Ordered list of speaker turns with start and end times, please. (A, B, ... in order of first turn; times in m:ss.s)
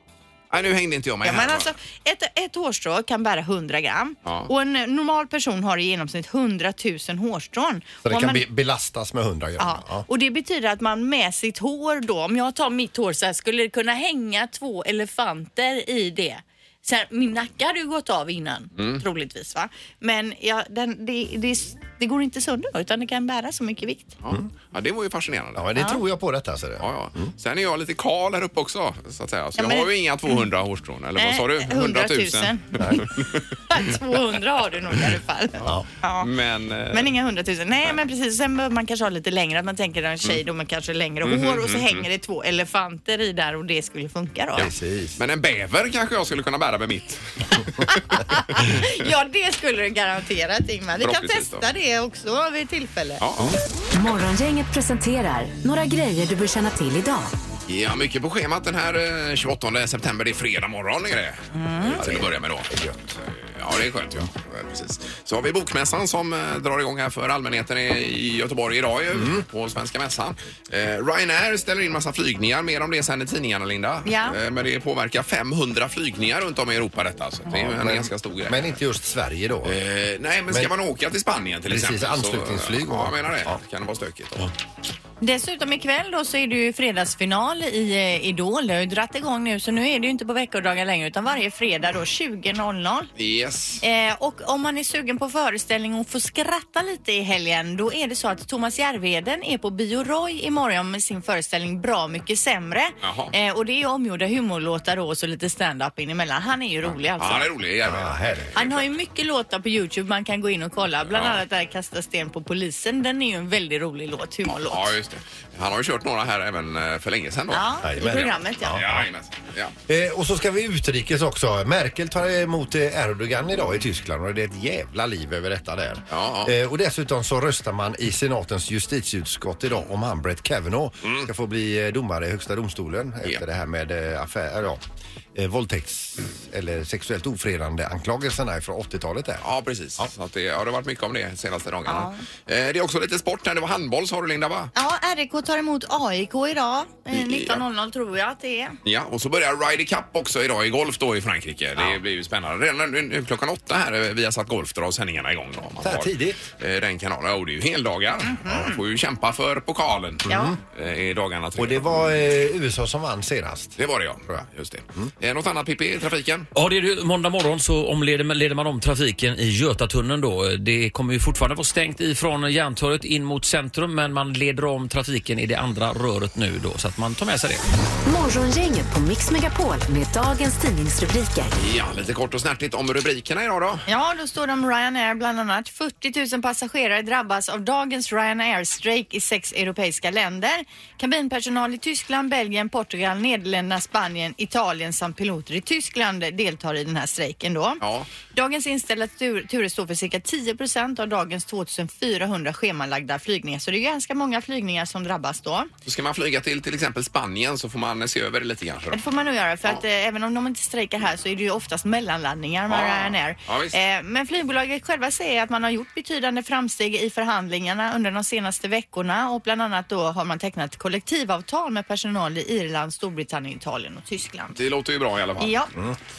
0:00.5-0:01.7 A
0:01.2-0:08.4 B
0:08.0-0:10.1 C
0:09.6-0:24.2 B
0:24.2-0:25.7 A
0:25.6-0:27.3 C
0:26.8-0:33.4 A
0:29.6-0:30.4 B
0:31.2-0:32.6 B
0:32.8-0:33.0 C
0:33.7-0:36.3 B
0:36.2-0:37.1 A
0:36.9-0:44.7 B
0:41.2-0:42.1 A
0:44.6-0:45.2 C
0:45.2-0:47.8 A
0:47.9-0:53.2 B
0:51.0-0:51.7 A
0:53.2-0:53.6 A
0:54.0-0:57.3 D
0:57.7-1:02.7 A
1:01.5-1:02.0 B
1:02.0-1:03.0 C
1:03.3-1:18.7 A
1:09.2-1:09.4 C
1:14.0-1:14.4 B
1:17.5-1:19.8 C
1:19.6-1:24.5 A
1:21.7-1:23.6 C
1:25.2-1:33.1 B
1:33.2-1:33.8 A
1:33.8-1:47.5 B
1:43.0-1:43.3 A
1:47.2-1:48.9 A
1:47.8-1:48.5 C
1:48.6-1:54.9 B
1:51.1-1:51.4 A
1:54.7-1:59.7 A
1:57.5-1:58.8 B
1:57.8-1:59.0 C
1:59.9-2:14.8 C
2:06.1-2:06.5 A
2:15.4-2:19.4 C
2:19.4-2:24.7 A
2:21.9-2:22.2 B
2:24.8-2:28.8 B
2:27.1-2:27.6 A
2:28.8-2:41.9 A
2:35.8-2:36.5 C
2:38.2-2:38.8 B
2:40.3-2:40.6 C
2:40.3-2:40.6 B
2:41.6-2:43.8 C
2:43.8-2:46.5 A
2:46.6-2:57.6 E
2:58.0-3:01.5 D
3:01.6-3:03.8 A
3:03.9-3:17.8 B
3:17.8-3:18.1 A
3:18.3-3:25.7 B
3:25.8-3:29.0 A
3:28.9-3:44.6 B
3:32.7-3:33.8 A
3:44.6-3:45.8 A
3:45.4-3:45.7 B